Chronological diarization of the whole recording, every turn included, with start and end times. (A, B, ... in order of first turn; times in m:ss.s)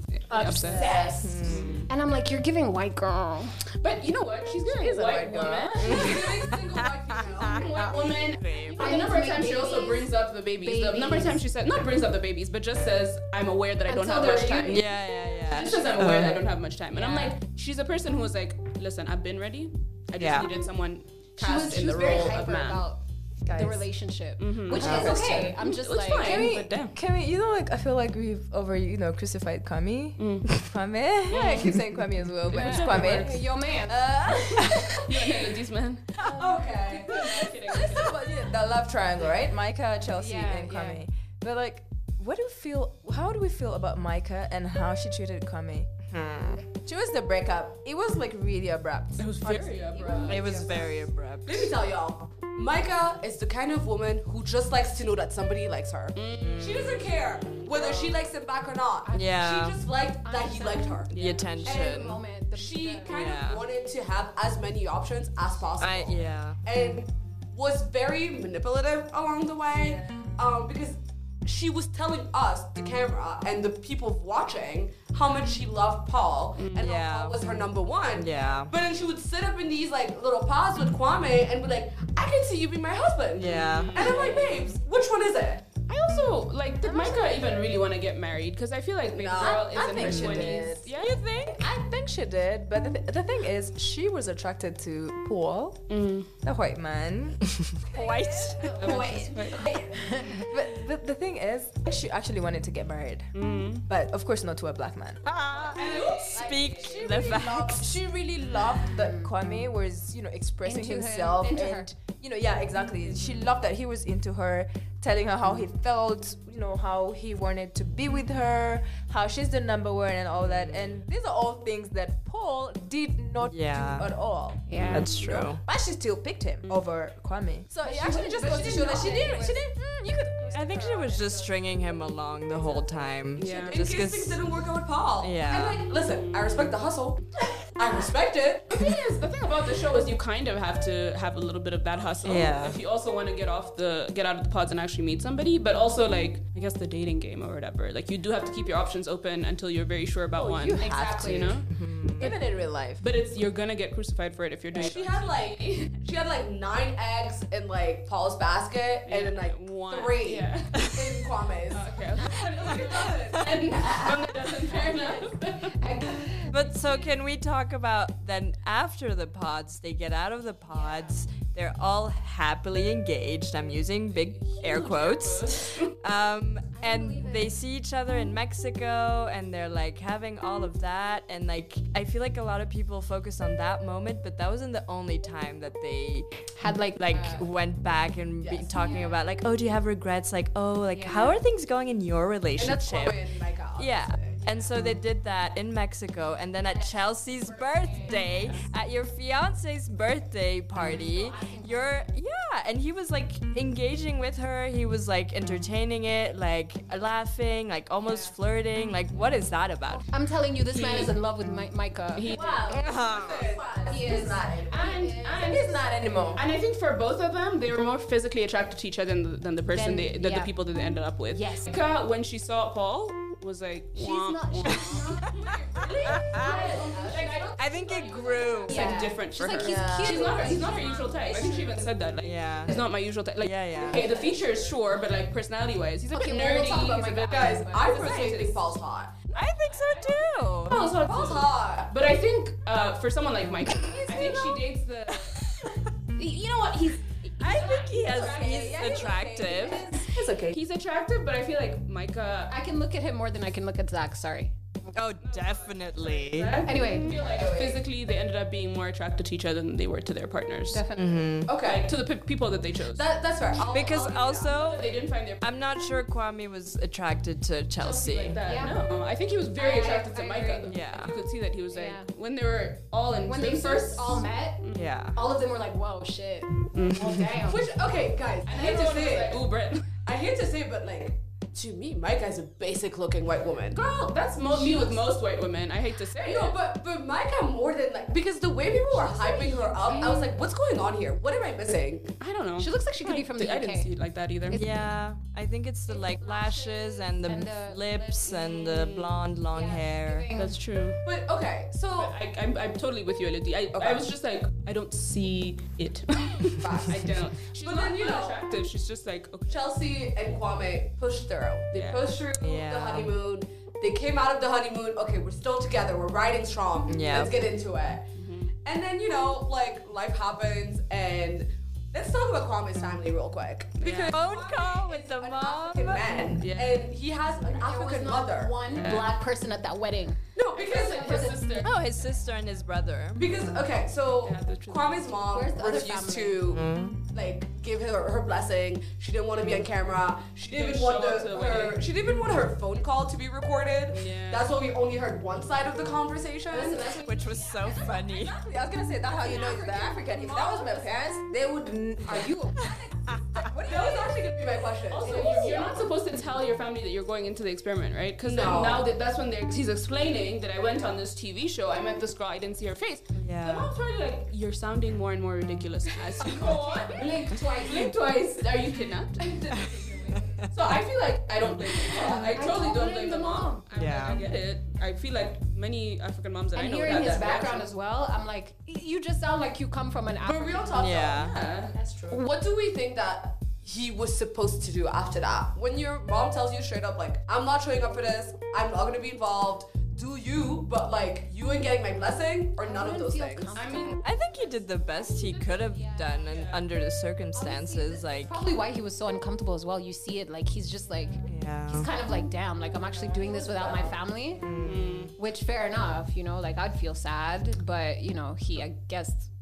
0:00.2-0:01.9 A
0:00.3-0:03.6 B
0:00.6-0:01.4 C
0:01.2-0:01.9 D
0:03.8-0:06.1 A
0:04.6-0:06.0 E
0:05.8-0:07.8 C
0:05.8-0:08.9 D
0:07.3-0:22.8 A
0:08.6-0:11.4 B
0:13.9-0:14.9 B
0:14.6-0:16.5 D
0:15.4-0:16.3 B
0:16.9-0:17.4 B
0:20.2-0:20.5 D
0:21.4-0:26.4 B
0:24.4-0:27.0 A
0:24.8-0:25.5 E
0:24.8-0:25.2 D
0:26.2-0:35.1 E
0:30.2-0:30.6 A
0:31.3-0:31.8 A
0:32.5-0:33.4 A
0:32.5-0:34.6 B
0:34.7-0:36.3 A
0:36.2-0:37.5 B
0:36.2-0:36.7 E
0:36.2-0:37.8 C
0:36.9-0:38.3 A
0:37.2-0:46.0 E
0:40.1-0:41.0 B
0:46.1-0:46.6 D
0:46.6-0:49.5 E
0:49.2-0:50.7 A
0:49.4-0:50.9 C
0:50.0-0:50.7 B
0:50.2-0:51.7 D
0:51.4-1:25.6 C
0:56.1-0:58.2 A
0:56.3-0:57.1 D
0:59.0-0:59.4 B
0:59.1-0:59.8 D
1:00.2-1:03.2 B
1:01.1-1:02.2 D
1:01.1-1:01.5 A
1:03.1-1:03.6 D
1:05.8-1:07.0 D
1:09.7-1:10.3 E
1:16.6-1:16.9 A
1:16.8-1:17.5 D
1:18.1-1:18.7 D
1:23.4-1:24.2 D
1:23.6-1:24.7 A
1:25.9-1:31.2 A
1:26.8-1:27.3 E
1:29.2-1:30.7 C
1:29.4-1:35.9 E
1:30.0-1:31.7 D
1:35.9-1:36.3 A
1:36.4-1:43.3 E
1:37.6-1:39.0 D
1:38.7-1:39.7 A
1:39.6-1:40.4 B
1:43.3-1:43.9 A
1:43.8-1:45.3 E
1:45.2-1:48.0 D
1:45.8-1:46.5 A
1:45.8-1:47.1 C
1:46.3-2:11.5 E
1:48.9-1:49.3 B
1:50.6-1:51.9 B
2:00.4-2:01.0 D
2:03.4-2:04.1 D
2:04.7-2:05.2 B
2:04.8-2:05.6 D
2:07.8-2:09.6 B
2:10.5-2:14.4 D
2:13.4-2:13.8 A
2:13.6-2:18.9 C
2:15.2-2:15.9 D
2:16.0-2:16.8 A
2:18.7-2:32.4 A
2:22.2-2:22.8 D
2:30.4-2:31.6 E
2:30.8-2:31.6 B
2:31.7-2:32.3 D
2:32.2-2:33.0 E
2:33.0-2:35.8 A
2:34.7-2:44.6 C
2:39.0-2:40.9 A
2:40.7-2:41.0 D
2:41.7-2:46.0 A
2:45.0-2:46.6 B
2:46.3-3:13.2 D
2:50.7-2:51.1 B
2:54.3-2:56.0 A
2:56.8-2:57.6 B
3:06.6-3:07.4 B
3:08.4-3:09.0 C
3:08.7-3:09.2 B
3:10.9-3:11.4 B
3:12.6-3:14.4 C
3:13.8-3:30.1 D
3:14.4-3:14.7 B
3:16.6-3:18.7 B
3:20.8-3:22.1 B
3:30.1-3:32.7 B
3:30.7-3:31.1 A
3:32.1-3:32.4 A
3:32.3-3:36.4 E
3:32.4-3:34.4 C
3:32.7-3:33.4 D
3:33.8-3:36.4 B
3:34.7-3:35.8 A
3:36.3-4:05.4 A
3:39.7-3:40.5 B
3:41.3-3:41.7 B
3:43.9-3:51.5 B
3:44.7-3:45.5 D
3:46.0-3:46.5 D
3:46.4-3:47.4 C
3:47.5-3:49.6 D
3:49.4-3:51.7 E
3:52.2-3:52.8 D
3:53.4-3:54.1 D
3:53.9-3:54.4 C
3:53.9-3:54.4 B
3:56.1-3:58.2 B
3:57.3-3:59.3 C
3:59.3-4:00.9 D
4:00.9-4:01.9 C
4:03.6-4:04.1 D
4:04.1-4:04.5 E
4:05.1-4:05.9 D
4:06.1-4:08.8 A
4:07.4-4:09.9 D
4:08.0-4:09.9 C
4:08.3-4:10.6 E
4:10.5-4:12.6 A
4:12.5-4:14.5 B
4:14.9-4:16.7 D
4:15.2-4:20.8 A
4:16.6-4:17.3 B
4:17.2-4:17.8 C
4:17.2-4:17.8 E
4:20.7-4:21.3 B
4:20.9-4:21.6 D
4:21.5-4:22.0 C
4:21.5-4:23.1 A
4:22.9-4:24.6 C
4:23.6-4:28.4 D
4:24.4-4:25.8 A
4:27.8-4:34.8 A
4:27.9-4:28.8 B
4:29.6-4:30.7 B
4:30.6-4:31.2 D
4:31.7-4:32.1 B
4:33.2-4:34.6 B
4:34.7-4:35.2 D
4:35.1-4:37.7 B
4:36.7-4:37.1 A
4:36.8-4:37.3 D
4:37.4-4:39.4 C
4:38.4-4:39.9 A
4:40.0-4:43.9 C
4:43.7-4:46.6 A
4:44.4-4:45.0 C
4:46.2-4:52.1 C
4:48.9-4:50.2 A
4:49.5-4:50.4 B
4:52.2-4:54.6 A
4:52.6-4:53.9 B
4:54.5-4:54.9 B
4:54.5-5:00.3 D
4:55.9-4:58.4 B
4:58.3-4:59.1 A
4:59.5-5:00.6 B
5:00.3-5:01.0 A
5:01.0-5:02.1 C
5:01.9-5:09.7 A
5:03.7-5:04.0 C
5:06.6-5:08.4 C
5:09.5-5:18.1 C
5:11.7-5:12.1 A
5:12.4-5:13.1 D
5:16.9-5:17.4 D
5:18.1-5:18.5 A
5:18.6-5:28.9 C
5:23.8-5:24.2 A
5:23.8-5:26.8 D
5:26.4-5:26.8 A
5:27.4-5:31.6 B
5:28.7-5:29.1 A
5:30.4-5:31.3 C
5:30.5-5:31.7 A
5:31.6-5:33.5 D
5:33.2-5:46.9 C
5:34.2-5:35.1 A
5:35.3-5:36.4 B
5:36.5-5:37.0 D
5:40.5-5:41.8 A
5:43.9-5:44.5 A
5:46.5-5:48.2 B
5:46.9-5:48.4 D
5:48.0-5:52.4 E
5:49.1-5:50.9 B
5:52.0-5:52.9 B
5:52.6-5:53.5 D
5:53.3-5:54.1 E
5:53.6-5:55.8 C
5:54.9-6:17.7 A
5:58.2-5:58.9 C
6:03.1-6:03.7 D
6:06.2-6:08.1 B
6:09.5-6:10.2 B
6:09.5-6:10.5 D
6:11.9-6:13.7 B
6:13.7-6:14.2 D
6:16.5-6:20.9 B
6:20.2-6:33.5 C
6:20.7-6:21.4 D
6:21.2-6:21.7 A
6:21.9-6:22.2 E
6:32.6-6:36.6 B
6:33.5-6:34.0 A
6:34.0-6:38.5 D
6:36.3-6:36.6 A
6:37.3-6:44.4 B
6:41.2-6:41.9 D
6:43.2-6:43.8 C
6:43.5-6:43.8 E
6:44.3-6:45.1 D
6:44.6-6:45.1 A
6:45.2-6:49.3 B